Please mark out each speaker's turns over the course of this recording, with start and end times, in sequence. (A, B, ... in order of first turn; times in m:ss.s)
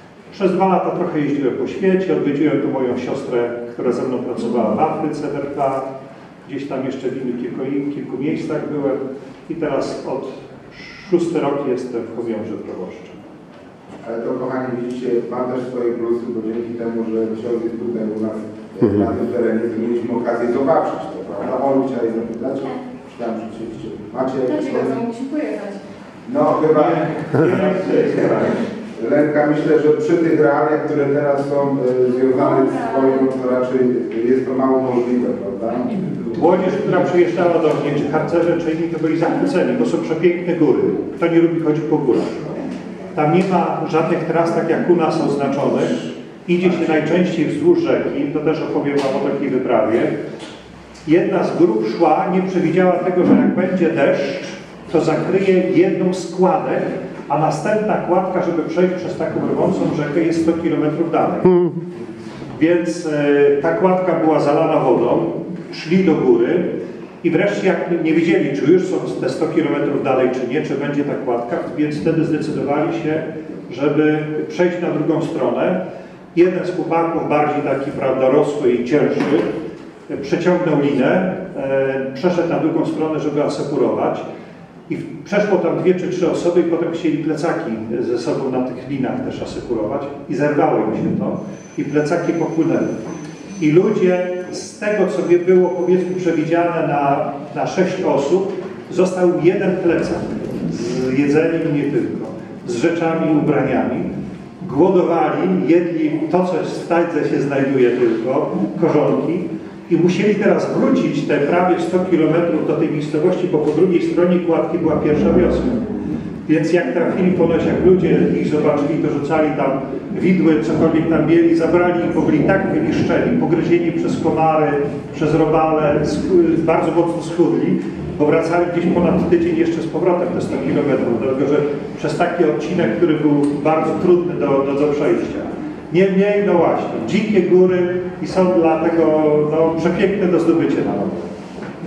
0:00.3-0:05.8 A
0:06.4-0:13.2 A
0:14.0-0:25.0 B
0:24.5-0:25.8 C
0:26.2-0:27.3 B
0:26.7-0:28.6 A
0:29.0-0:35.9 B
0:32.3-0:33.1 C
0:36.2-0:42.6 A
0:43.1-0:50.2 A
0:51.0-1:01.7 A
1:02.5-1:06.7 A
1:07.2-1:15.8 A
1:16.3-1:19.5 A
1:20.1-1:24.2 A
1:24.9-1:33.0 A
1:33.6-1:55.8 A
1:56.4-2:21.3 A